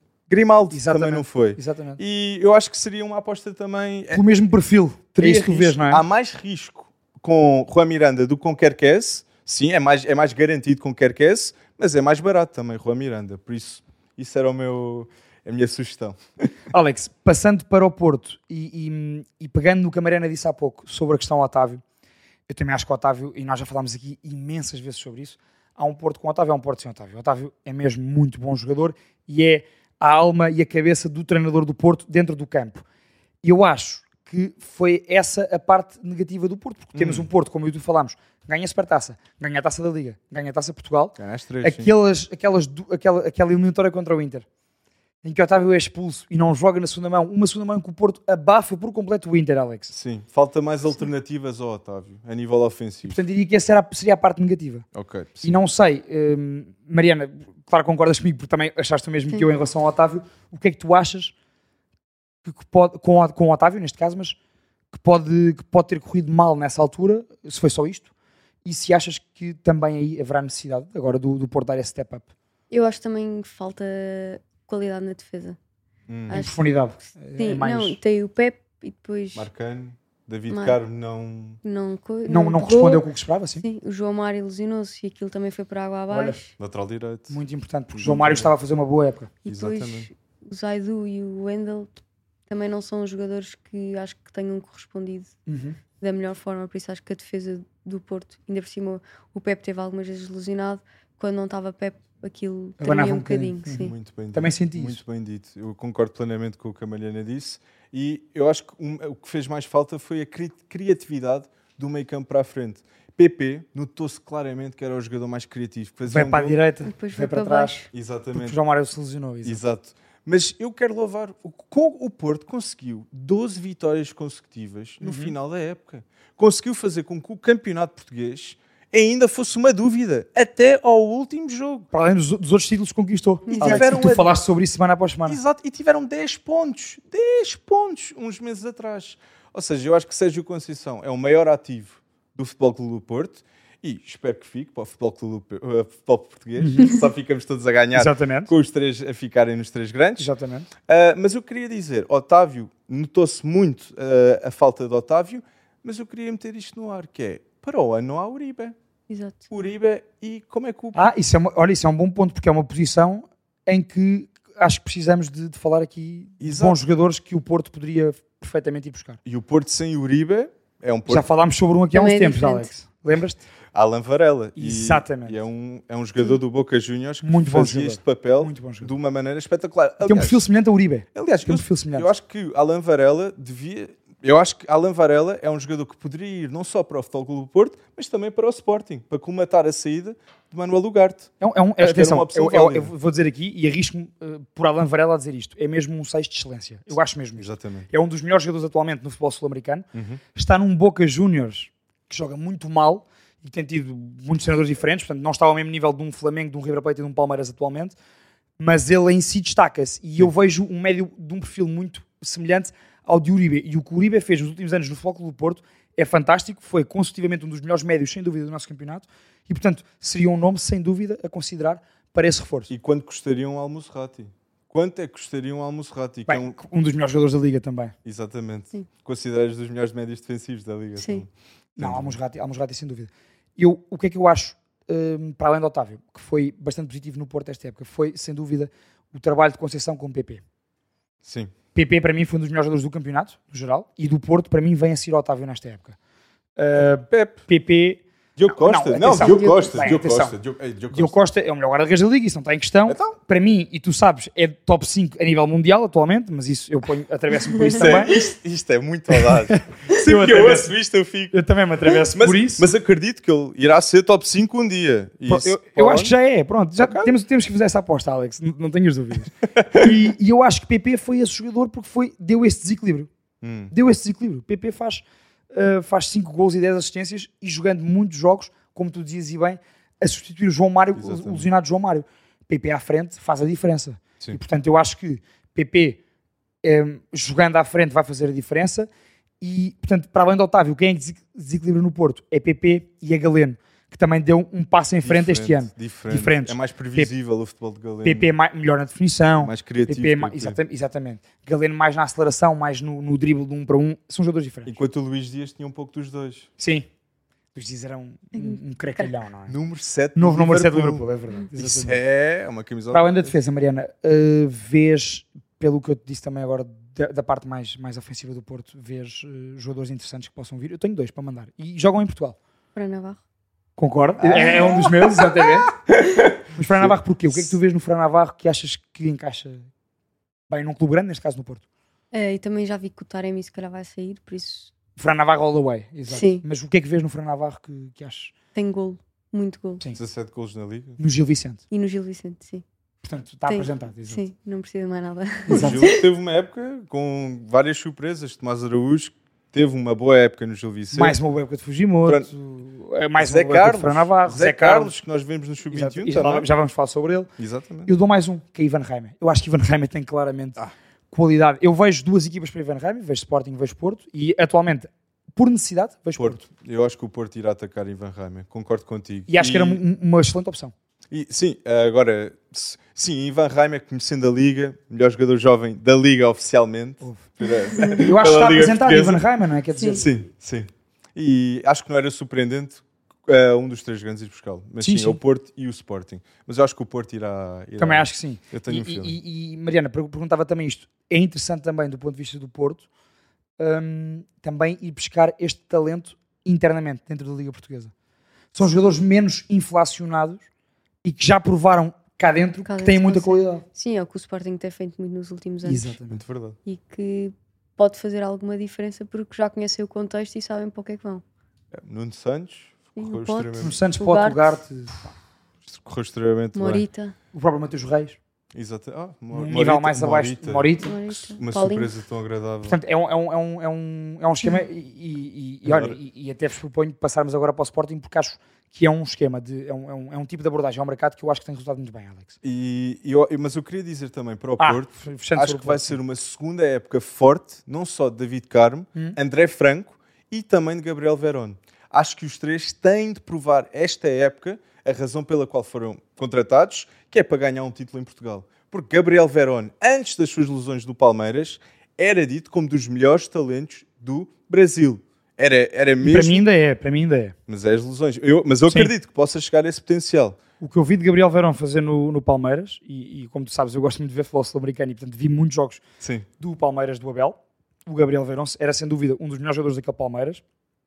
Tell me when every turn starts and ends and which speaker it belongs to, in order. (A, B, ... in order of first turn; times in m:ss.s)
0:00.3-0:04.2 A
0:00.7-0:02.0 B
0:04.1-0:06.0 B
0:05.1-0:16.2 A
0:16.7-0:21.8 B
0:22.5-0:32.8 B
0:33.4-0:44.4 B
0:36.9-0:37.3 A
0:41.2-0:41.9 A
0:45.2-0:49.9 B
0:49.9-0:53.2 A
0:53.1-0:54.9 B
0:55.0-0:55.6 A
0:55.4-1:01.3 B
1:02.4-1:04.4 B
1:04.9-1:08.1 B
1:08.6-1:12.3 B
1:12.7-1:15.6 C
1:16.1-1:16.4 A
1:16.3-1:19.5 C
1:16.3-1:18.0 B
1:19.4-1:21.6 A
1:20.5-1:20.8 C
1:21.6-1:23.0 C
1:22.3-1:23.6 B
1:23.6-1:26.5 C
1:26.1-1:26.4 B
1:26.6-1:27.4 A
1:27.3-1:29.3 B
1:28.0-1:28.5 A
1:29.4-1:31.9 C
1:29.5-1:30.1 A
1:32.5-1:35.4 C
1:35.5-1:35.8 B
1:36.0-1:43.9 C
1:42.8-1:45.0 B
1:43.7-1:56.6 A
1:56.1-1:57.8 B
1:56.8-1:57.9 C
1:57.9-1:58.6 A
1:58.3-1:59.6 B
1:59.4-2:11.9 A
2:05.0-2:05.4 B
2:11.9-2:15.4 B
2:13.5-2:14.0 C
2:13.6-2:14.3 A
2:15.3-2:30.3 A
2:26.6-2:26.9 B
2:27.9-2:28.5 B
2:30.2-2:30.7 B
2:30.9-2:38.8 A
2:39.1-2:39.5 C
2:39.5-2:41.1 A
2:41.0-2:49.2 B
2:46.4-2:46.8 A
2:49.3-2:51.3 A
2:51.1-2:53.4 B
2:51.9-2:52.7 C
2:53.7-3:00.5 A
2:54.6-2:55.4 B
2:57.2-2:58.9 B
3:00.0-3:02.1 B
3:01.1-3:12.9 A
3:11.4-3:28.0 B
3:17.4-3:17.9 A
3:19.9-3:20.2 A
3:28.6-3:42.7 B
3:42.7-3:46.6 A
3:46.3-3:48.0 B
3:48.0-3:52.2 A
3:51.0-3:51.2 C
3:51.8-4:00.4 B
4:01.2-4:01.5 A
4:01.8-4:06.0 B
4:06.6-4:10.4 B
4:06.8-4:07.4 A
4:08.4-4:11.2 A
4:09.2-4:09.7 C
4:10.9-4:18.2 B
4:12.9-4:13.2 A
4:17.6-4:21.4 A
4:19.1-4:20.8 B
4:21.3-4:22.7 B
4:22.0-4:26.1 A
4:25.3-4:33.1 B
4:26.8-4:27.1 A
4:29.6-4:29.9 A
4:33.4-4:33.7 A
4:33.7-4:46.0 B
4:41.0-4:41.5 A
4:46.6-4:48.9 B
4:49.4-4:57.1 B
4:55.0-4:58.3 A
4:58.0-5:04.8 B
4:59.4-5:00.6 A
5:04.7-5:06.5 A
5:06.6-5:06.9 B
5:07.6-5:09.5 B
5:08.3-5:09.1 C
5:09.5-5:11.1 A
5:10.2-5:12.0 B
5:11.6-5:13.3 A
5:12.9-5:22.4 B
5:22.8-5:23.2 C
5:23.8-5:25.8 B
5:24.2-5:27.0 A
5:26.5-5:29.7 B
5:30.5-5:31.6 B
5:32.1-5:34.7 C
5:35.0-5:38.3 B
5:36.1-5:36.4 C
5:38.6-5:39.8 C
5:39.9-5:41.0 A
5:41.0-5:41.6 B
5:41.7-5:42.6 C
5:43.0-5:44.2 B
5:43.5-5:46.0 C
5:45.5-5:51.2 A
5:45.5-5:45.9 B
5:50.9-5:54.9 B
5:52.0-5:52.3 A
5:53.2-5:56.5 A
5:55.7-5:57.3 B
5:57.4-5:57.9 A
5:57.9-6:00.6 B
6:01.1-6:06.4 B
6:06.2-6:09.8 A
6:09.3-6:10.7 B
6:11.1-6:19.2 A
6:17.9-6:20.1 B
6:19.8-6:20.0 C
6:20.0-6:29.2 A
6:24.8-6:25.2 B
6:27.8-6:32.8 B
6:33.6-6:37.9 B
6:38.5-6:40.4 B
6:41.0-6:43.6 B
6:42.6-6:46.0 C
6:45.6-6:46.2 B
6:46.1-6:46.6 A
6:46.6-6:51.2 C
6:51.7-6:53.8 A
6:53.0-6:54.5 C
6:53.6-6:55.1 B
6:55.7-6:56.8 A
6:56.6-6:57.2 C
6:57.3-6:58.2 B
6:58.5-7:02.8 A
6:59.3-7:01.0 B
7:00.8-7:01.9 C
7:02.7-7:12.4 B
7:05.6-7:06.0 A
7:12.4-7:36.4 A
7:14.6-7:16.0 B
7:36.0-7:37.4 B
7:37.5-7:40.4 A
7:40.6-7:45.8 B
7:46.0-7:46.3 A
7:46.4-7:50.4 B